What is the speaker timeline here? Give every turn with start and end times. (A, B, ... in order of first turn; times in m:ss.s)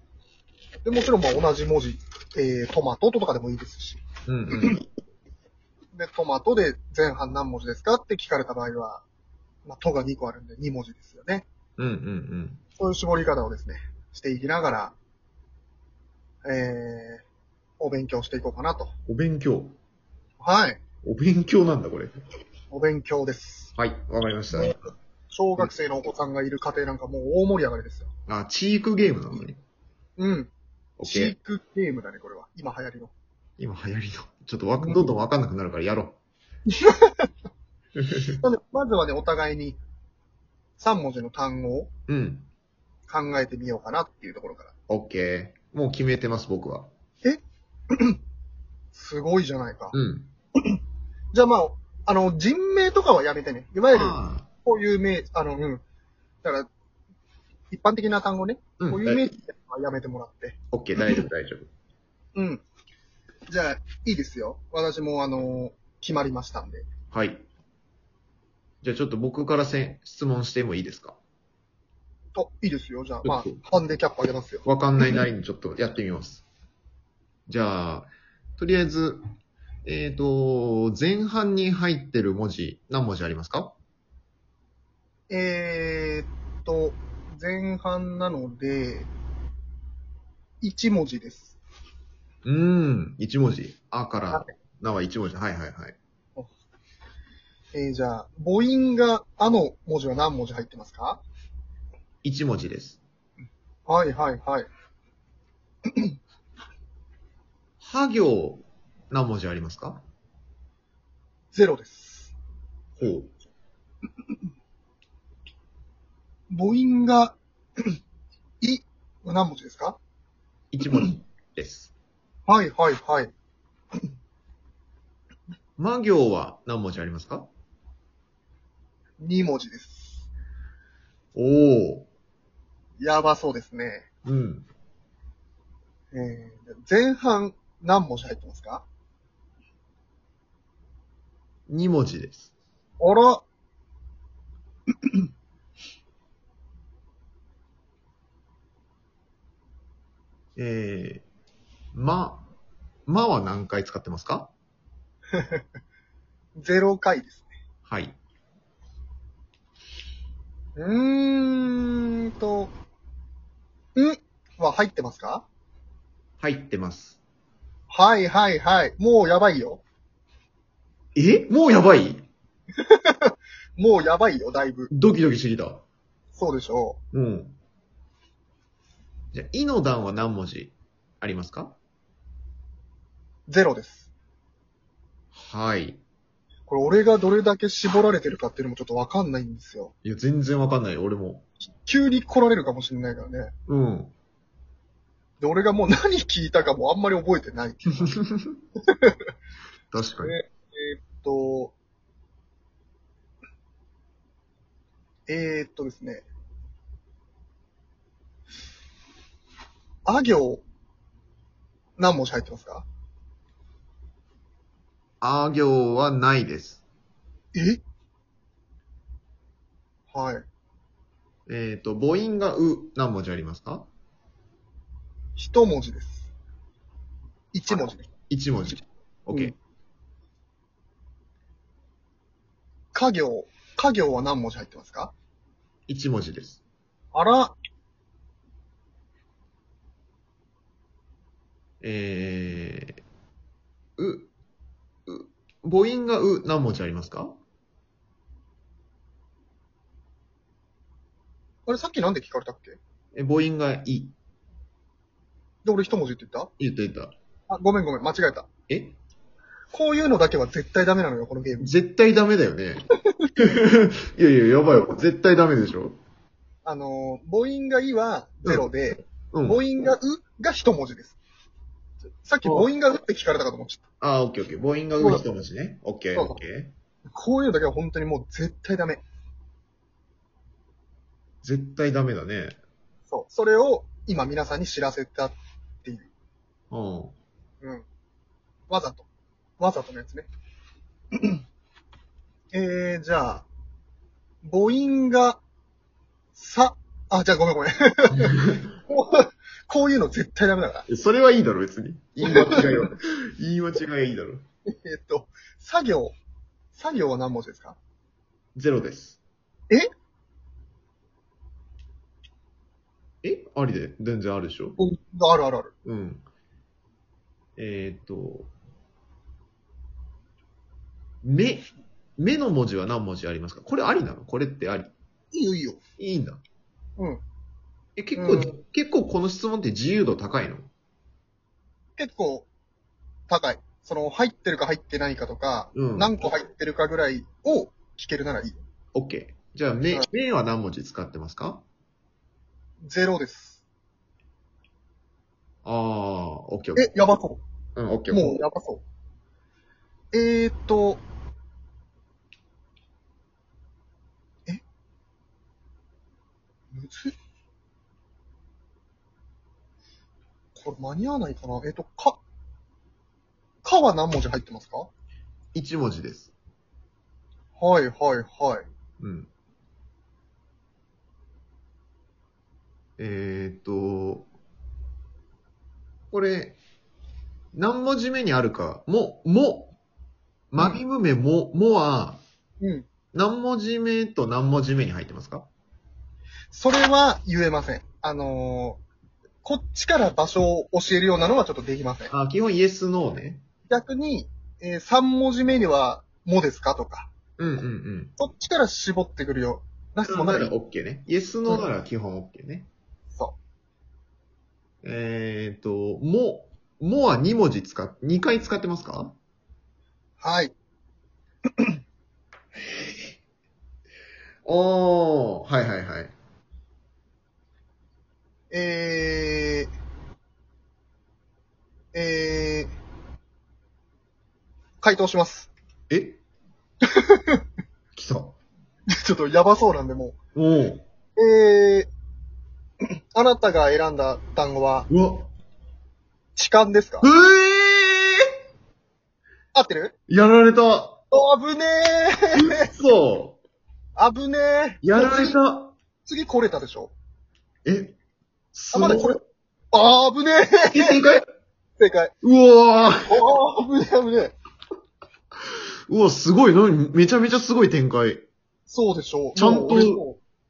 0:00.8-0:04.0 A
0:04.2-0:04.8 B
0:05.9-0:09.0 A
0:09.6-0:11.4 A
0:11.8-0:12.6 B
0:12.8-0:14.9 A
0:16.4-0:17.2 A
0:17.8-0:18.9 A
0:19.1-0:19.7 B
0:20.4-0:20.8 A
0:21.0-0:22.2 B
0:22.7-0:23.7 A
0:23.8-0:24.8 B
0:24.5-0:24.8 A
0:25.3-0:28.1 A
0:28.3-0:29.6 B
0:30.2-0:30.5 A
0:31.0-0:31.3 B
0:31.0-0:33.1 A
0:33.6-0:36.2 B
0:34.8-0:35.1 A
0:36.8-0:37.3 A
0:38.0-0:38.4 B
0:38.3-0:39.8 A
0:40.8-0:41.9 A
0:42.1-0:42.5 B
0:43.1-0:44.7 A
0:44.9-0:46.9 B
0:47.9-0:48.2 A
0:48.9-0:50.0 A
0:49.9-0:50.3 B
0:51.3-0:55.8 A
0:53.9-0:54.5 B
0:57.7-1:00.6 A
0:58.8-0:59.3 B
1:00.7-1:01.7 B
1:02.3-1:02.6 A
1:03.5-1:06.9 A
1:07.1-1:07.4 B
1:08.8-1:11.2 B
1:12.3-1:14.6 A
1:13.2-1:13.6 B
1:14.6-1:16.4 B
1:17.5-1:19.2 B
1:19.8-1:23.8 B
1:25.3-1:29.1 A
1:30.6-1:31.6 A
1:32.4-1:36.0 B
1:37.7-1:41.2 A
1:42.2-1:43.0 B
1:43.9-1:44.7 A
1:47.8-1:50.0 B
1:51.5-1:52.3 A
1:53.0-1:53.3 B
1:56.5-1:58.0 A
1:58.6-2:00.0 A
2:00.7-2:01.9 B
2:02.4-2:03.3 A
2:05.8-2:07.5 B
2:09.2-2:10.3 A
2:11.3-2:12.1 B
2:13.0-2:14.1 A
2:14.2-2:14.6 B
2:16.1-2:18.8 A
2:21.7-2:22.5 B
2:23.0-2:23.4 A
2:30.6-2:31.2 B
2:31.9-2:32.5 B
2:33.1-2:34.5 B
2:35.3-2:35.6 A
2:36.6-2:37.5 A
2:37.8-2:38.2 B
2:40.8-2:42.7 A
2:43.9-2:45.4 A
2:46.4-2:47.2 B
2:47.9-2:49.8 A
2:51.2-2:52.2 B
2:52.8-2:54.9 A
2:54.9-2:55.8 B
2:56.3-2:57.0 A
2:57.1-2:57.6 B
2:59.3-3:01.8 B
3:03.5-3:04.1 A
3:05.3-3:06.0 B
3:06.7-3:09.9 A
3:10.0-3:11.4 B
3:11.8-3:13.5 A
3:13.7-3:14.1 B
3:15.4-3:18.2 A
3:18.9-3:19.2 A
3:19.9-3:20.3 B
3:20.2-3:21.7 A
3:25.3-3:26.2 A
3:30.0-3:30.6 A
3:32.0-3:32.8 A
3:35.2-3:36.8 B
3:37.5-3:37.8 A
3:40.1-3:40.4 A
3:41.5-3:43.9 B
3:45.4-3:46.3 A
3:47.5-3:48.1 A
3:47.7-3:49.5 B
3:52.9-3:55.1 A
3:55.9-3:56.6 B
3:57.1-3:57.6 A
4:01.8-4:03.0 B
4:04.0-4:04.3 B
4:05.1-4:07.4 B
4:11.6-4:12.8 A
4:13.1-4:14.1 B
4:15.6-4:16.5 A
4:16.6-4:17.1 B
4:17.5-4:18.5 A
4:18.7-4:19.0 B
4:19.7-4:21.7 A
4:21.6-4:22.8 B
4:23.4-4:26.0 B
4:26.6-4:31.2 A
4:29.3-4:29.6 B
4:32.2-4:33.8 A
4:32.4-4:32.7 B
4:34.0-4:36.7 B
4:35.0-4:35.2 A
4:36.1-4:36.4 A
4:37.1-4:39.0 A
4:41.4-4:42.6 B
4:43.1-4:46.1 A
4:46.7-4:47.1 B
4:48.7-4:49.0 A
4:49.6-4:50.3 A
4:51.1-4:51.4 A
4:52.5-4:53.4 A
4:54.4-4:55.4 A
4:56.3-5:00.9 A
5:00.9-5:04.4 B
5:02.2-5:02.7 A
5:04.6-5:06.1 A
5:06.7-5:07.8 A
5:08.5-5:09.2 B
5:13.2-5:14.8 B
5:14.8-5:15.7 A
5:15.8-5:16.2 B
5:17.6-5:18.5 B
5:21.2-5:21.6 B
5:22.2-5:24.9 B
5:25.3-5:25.8 A
5:26.0-5:26.4 B
5:28.0-5:30.7 B
5:28.2-5:28.5 A
5:32.0-5:32.5 A
5:33.3-5:38.6 A
5:35.7-5:36.1 B
5:38.9-5:41.6 B
5:42.8-5:43.6 A
5:45.6-5:46.9 B
5:46.8-5:47.4 A
5:47.8-5:48.4 B
5:48.1-5:48.8 A
5:50.1-5:51.0 A
5:56.7-5:57.1 A
6:00.5-6:02.2 A
6:03.6-6:04.9 A
6:05.5-6:06.3 B
6:07.6-6:08.6 A
6:09.0-6:09.3 B
6:13.0-6:14.3 B
6:16.1-6:16.6 B
6:17.5-6:19.7 B
6:20.5-6:22.2 B
6:22.6-6:22.9 A
6:23.1-6:25.5 B
6:26.5-6:28.8 A
6:29.4-6:32.1 A
6:32.1-6:33.4 B
6:33.7-6:37.1 A
6:37.4-6:38.1 B
6:38.2-6:40.5 A
6:40.0-6:42.7 B
6:44.8-6:49.1 B
6:50.2-6:50.5 A
6:54.4-6:56.1 B
6:58.5-6:59.7 A
7:01.9-7:02.7 A
7:04.8-7:05.5 A
7:05.9-7:06.2 B
7:06.9-7:07.4 A
7:07.9-7:08.4 B
7:08.9-7:10.2 A
7:10.3-7:10.8 B
7:11.2-7:11.9 A
7:12.8-7:14.9 A
7:14.9-7:15.3 B
7:16.4-7:17.1 A
7:17.0-7:18.3 B
7:19.5-7:19.9 A
7:20.1-7:21.0 B
7:21.1-7:22.7 A
7:22.3-7:23.4 B
7:24.0-7:25.4 A
7:24.8-7:25.7 B
7:26.0-7:26.9 A
7:27.6-7:28.0 B
7:28.5-7:29.2 B
7:28.7-7:29.2 A
7:29.7-7:31.0 A
7:30.7-7:31.2 B
7:31.8-7:32.1 A
7:32.2-7:33.1 B
7:33.0-7:34.4 A
7:35.9-7:38.2 B
7:38.7-7:40.2 A
7:39.3-7:40.0 B